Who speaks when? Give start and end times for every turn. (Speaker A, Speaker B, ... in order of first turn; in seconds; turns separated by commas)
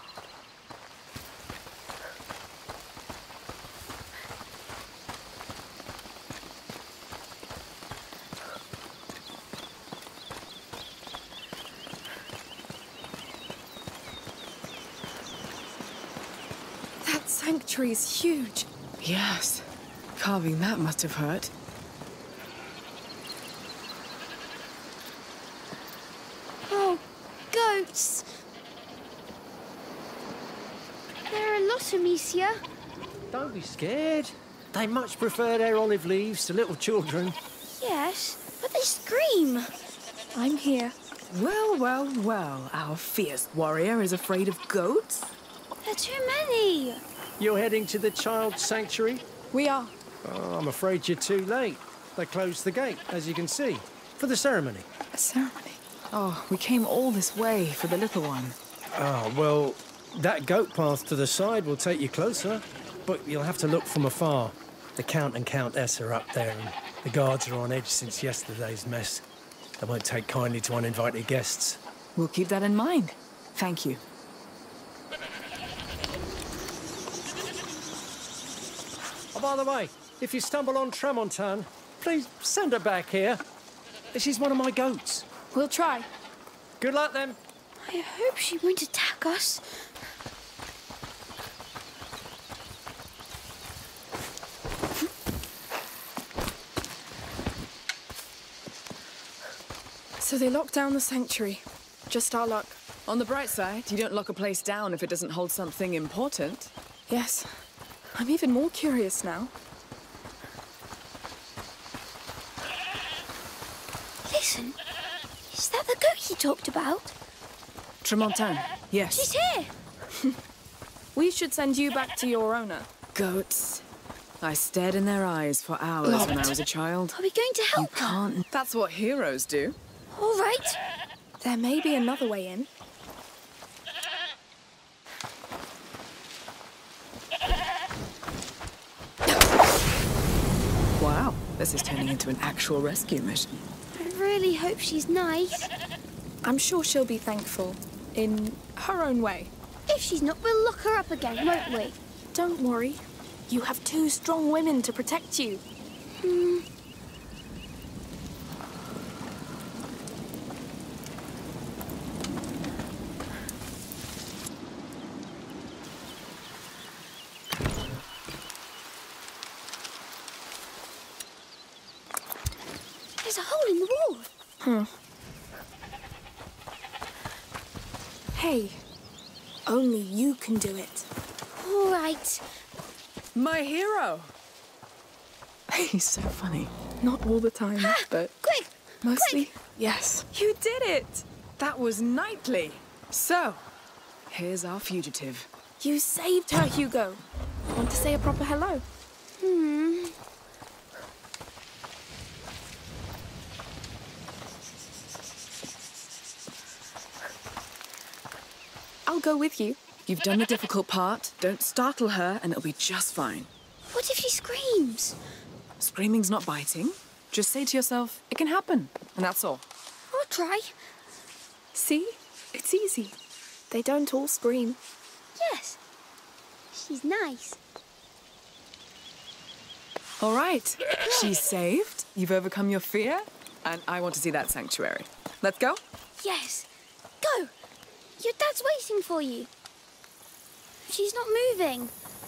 Speaker A: 17.0-18.7, Speaker B: 19.0-21.5, Speaker C: 26.7-28.3, Speaker C: 31.3-32.6, Speaker D: 33.3-37.4, Speaker C: 37.8-39.7, Speaker A: 40.3-40.9, Speaker B: 41.3-45.3, Speaker C: 45.8-47.0, Speaker D: 47.4-49.2, Speaker A: 49.5-49.9, Speaker D: 50.2-54.9, Speaker A: 55.1-55.8, Speaker B: 56.1-58.5, Speaker D: 58.9-69.2, Speaker D: 69.8-71.8, Speaker B: 72.2-74.0, Speaker D: 79.3-83.4, Speaker D: 84.1-85.2, Speaker A: 85.5-86.1, Speaker D: 86.8-87.4, Speaker C: 87.8-89.8, Speaker A: 100.2-102.8, Speaker B: 103.0-106.7, Speaker A: 107.1-107.5, Speaker A: 108.1-109.5, Speaker C: 114.2-114.8, Speaker C: 115.5-117.1, Speaker B: 118.0-119.3, Speaker C: 119.1-119.7, Speaker A: 121.1-122.9, Speaker B: 123.1-123.8, Speaker B: 124.4-127.2, Speaker C: 126.1-126.4, Speaker C: 127.1-128.2, Speaker B: 127.7-129.8, Speaker C: 130.1-130.8, Speaker A: 131.4-132.7, Speaker B: 141.0-143.6, Speaker C: 143.9-145.7, Speaker A: 146.4-149.5, Speaker C: 149.9-152.0, Speaker A: 152.3-155.6, Speaker C: 156.2-156.7, Speaker C: 173.2-174.3, Speaker A: 174.6-174.9, Speaker A: 178.3-178.8, Speaker A: 179.7-181.1, Speaker C: 181.6-182.4, Speaker B: 183.3-184.3, Speaker B: 185.7-186.7, Speaker A: 187.0-188.3, Speaker C: 187.8-189.5, Speaker A: 189.0-191.2, Speaker B: 191.6-193.6, Speaker B: 194.3-195.5, Speaker A: 195.8-197.2, Speaker A: 197.7-198.8, Speaker C: 199.4-200.1, Speaker A: 209.1-209.8, Speaker B: 210.1-213.5, Speaker C: 213.9-215.2, Speaker B: 215.8-219.6, Speaker C: 220.1-220.7, Speaker A: 221.7-223.2, Speaker A: 223.7-224.8, Speaker C: 225.3-225.8, Speaker C: 226.7-227.6, Speaker B: 230.2-235.8, Speaker C: 236.2-236.7, Speaker C: 237.2-237.5, Speaker C: 238.2-239.5, Speaker C: 240.8-241.9